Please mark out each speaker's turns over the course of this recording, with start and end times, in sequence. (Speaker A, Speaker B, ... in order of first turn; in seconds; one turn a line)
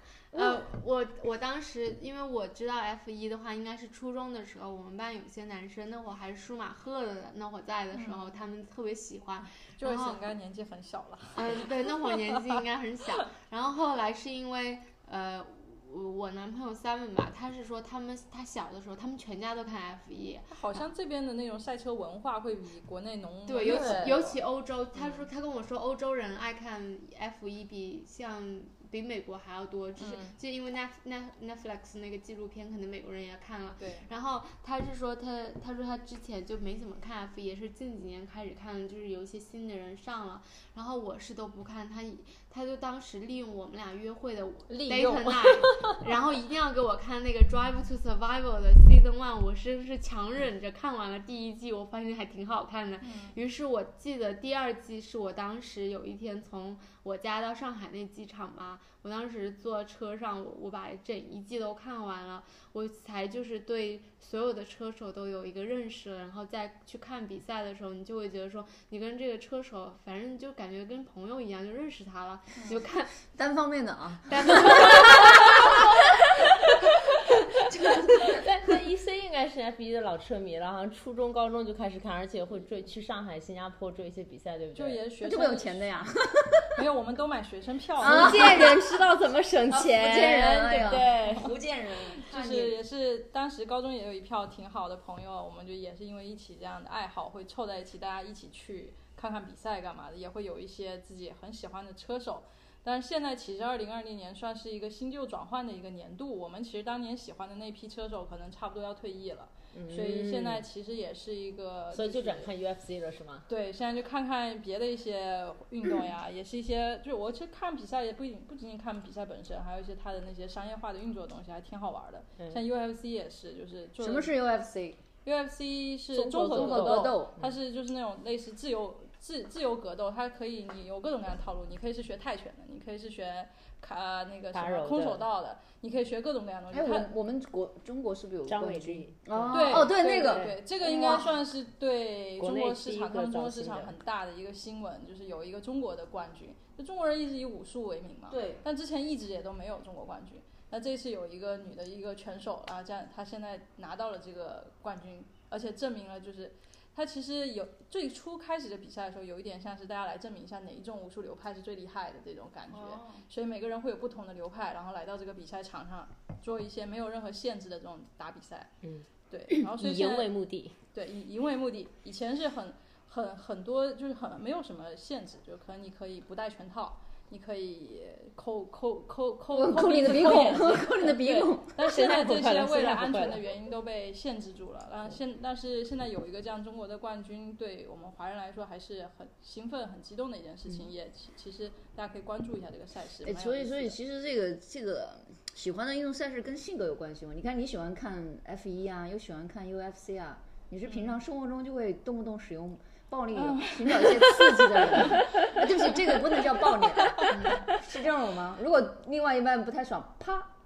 Speaker A: 0.3-10.2
Speaker B: 7.9-8.3
Speaker B: 9.8-12.4
Speaker A: 11.3-20.6
Speaker B: 20.5-24.4
Speaker A: 23.4-73.2
Speaker C: 23.6-24.2
Speaker B: 25.0-25.2
Speaker B: 30.0-30.4
Speaker B: 33.8-34.0
Speaker C: 44.7-45.8
Speaker B: 53.0-53.4
Speaker D: 73.3-75.8
Speaker A: 74.3-75.8
Speaker C: 74.8-75.7
Speaker D: 77.6-78.4
Speaker C: 77.8-85.0
Speaker B: 84.7-85.9
Speaker D: 85.2-86.8
Speaker B: 86.8-88.7
Speaker D: 88.0-88.8
Speaker C: 88.0-91.5
Speaker D: 89.7-92.7
Speaker B: 92.2-112.5
Speaker C: 109.7-110.6
Speaker C: 111.9-113.5
Speaker B: 113.5-124.3
Speaker D: 124.0-125.0
Speaker B: 125.2-137.1
Speaker C: 126.1-127.5
Speaker D: 126.5-127.3
Speaker C: 134.5-135.2
Speaker D: 136.7-141.4
Speaker C: 138.5-141.2
Speaker B: 139.5-168.7
Speaker C: 142.4-143.9
Speaker D: 148.3-148.6
Speaker A: 162.8-163.0
Speaker C: 168.8-170.8
Speaker B: 169.3-170.3
Speaker B: 170.9-194.0
Speaker D: 179.5-181.7
Speaker C: 180.2-183.4
Speaker D: 193.2-210.5
Speaker B: 200.8-201.2
Speaker B: 203.3-207.3
Speaker A: 207.3-207.7